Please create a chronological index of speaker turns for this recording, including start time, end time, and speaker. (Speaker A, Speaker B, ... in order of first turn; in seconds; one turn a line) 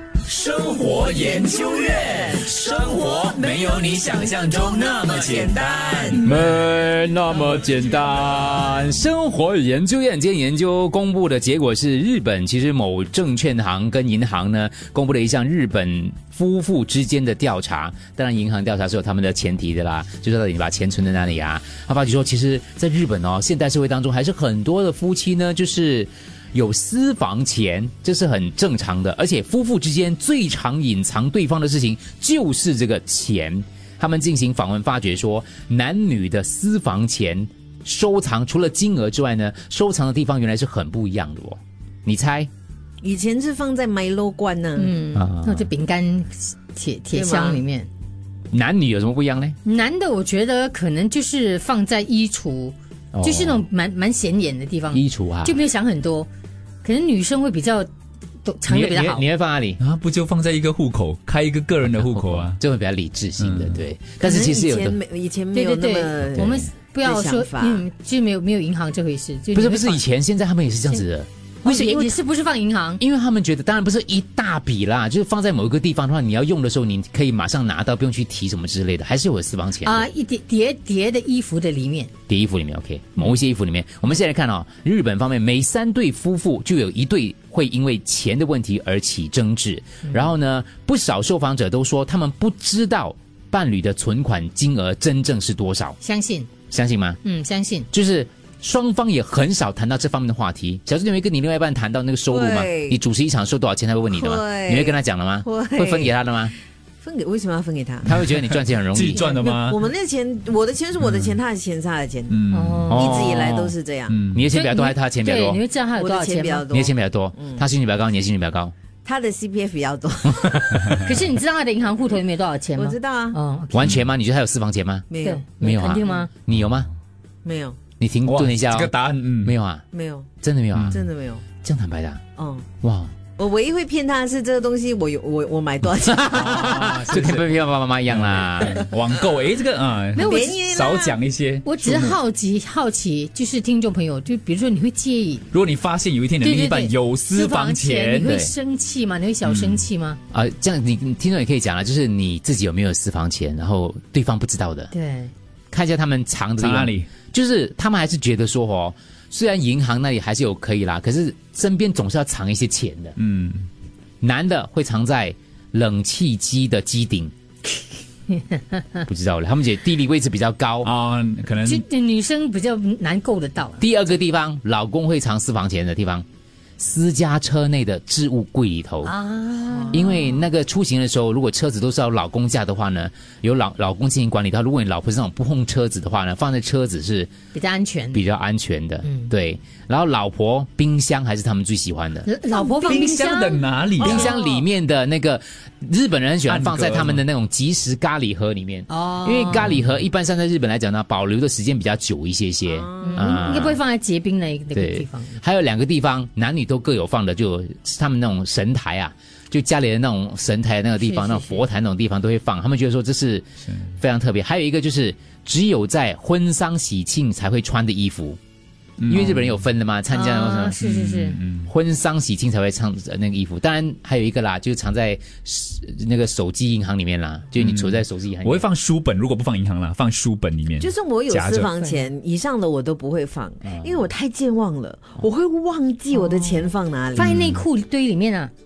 Speaker A: 0.2-6.3
Speaker B: 6.2-42.5
Speaker C: 43.0-45.0
Speaker D: 44.8-47.9
Speaker B: 45.1-45.7
Speaker C: 47.1-47.6
Speaker B: 48.5-49.5
Speaker D: 49.6-56.3
Speaker B: 53.1-53.6
Speaker B: 54.9-55.6
Speaker D: 56.8-57.9
Speaker D: 58.4-59.2
Speaker B: 58.7-59.8
Speaker A: 59.8-62.6
Speaker B: 61.8-65.0
Speaker A: 63.4-63.8
Speaker C: 64.2-67.9
Speaker D: 65.5-70.0
Speaker B: 66.3-66.7
Speaker B: 69.5-72.2
Speaker D: 71.6-73.0
Speaker B: 73.0-80.0
Speaker D: 79.8-82.1
Speaker B: 82.3-96.0
Speaker D: 96.0-96.5
Speaker B: 96.7-97.2
Speaker D: 97.2-97.9
Speaker B: 97.9-106.5
Speaker C: 102.3-103.0
Speaker C: 104.1-106.1
Speaker C: 107.0-108.1
Speaker B: 108.0-109.2
Speaker A: 108.9-109.8
Speaker C: 109.1-114.2
Speaker A: 111.0-111.4
Speaker A: 112.3-113.0
Speaker D: 112.5-113.3
Speaker B: 112.9-113.7
Speaker A: 114.1-114.5
Speaker B: 114.3-115.6
Speaker D: 114.5-116.7
Speaker C: 115.9-117.6
Speaker B: 116.7-118.7
Speaker C: 119.0-121.0
Speaker B: 120.4-120.9
Speaker D: 121.0-124.0
Speaker C: 122.8-123.4
Speaker B: 123.7-125.1
Speaker C: 125.1-125.4
Speaker D: 125.2-126.3
Speaker B: 125.6-126.9
Speaker C: 127.4-127.8
Speaker B: 128.0-128.9
Speaker A: 128.2-129.5
Speaker B: 129.4-129.8
Speaker C: 129.9-130.3
Speaker B: 130.4-131.0
Speaker C: 130.9-131.4
Speaker B: 131.6-132.2
Speaker C: 132.4-132.7
Speaker B: 132.8-133.1
Speaker C: 133.4-137.2
Speaker B: 136.1-138.8
Speaker A: 136.4-137.5
Speaker A: 138.1-142.1
Speaker D: 140.1-140.6
Speaker C: 140.2-141.2
Speaker D: 141.6-145.4
Speaker A: 145.5-148.3
Speaker D: 146.4-150.2
Speaker B: 148.2-148.5
Speaker B: 149.5-149.8
Speaker B: 150.3-154.9
Speaker D: 154.9-155.3
Speaker B: 155.7-163.1
Speaker A: 156.6-157.1
Speaker A: 163.2-163.7
Speaker B: 164.2-167.3
Speaker D: 168.6-168.8
Speaker B: 169.1-170.9
Speaker A: 170.8-171.8
Speaker D: 171.6-173.8
Speaker B: 173.8-176.2
Speaker B: 176.8-179.1
Speaker D: 179.0-180.3
Speaker B: 179.9-187.3
Speaker D: 187.5-188.2
Speaker B: 188.1-192.3
Speaker D: 189.0-189.3
Speaker D: 192.2-194.3
Speaker A: 192.6-194.2
Speaker B: 194.0-203.8
Speaker C: 194.0-194.6
Speaker A: 196.5-197.2
Speaker D: 198.9-199.8
Speaker C: 202.7-203.4
Speaker D: 203.0-205.3
Speaker B: 204.7-213.5
Speaker D: 211.0-211.6
Speaker A: 213.7-213.9
Speaker B: 214.0-218.4
Speaker A: 219.0-219.6
Speaker B: 219.1-220.8
Speaker D: 220.1-221.4
Speaker A: 220.8-221.7
Speaker B: 221.7-228.7
Speaker A: 227.6-231.7
Speaker C: 230.8-237.3
Speaker B: 233.6-234.0
Speaker D: 236.1-236.6
Speaker D: 237.1-238.5
Speaker B: 237.3-237.6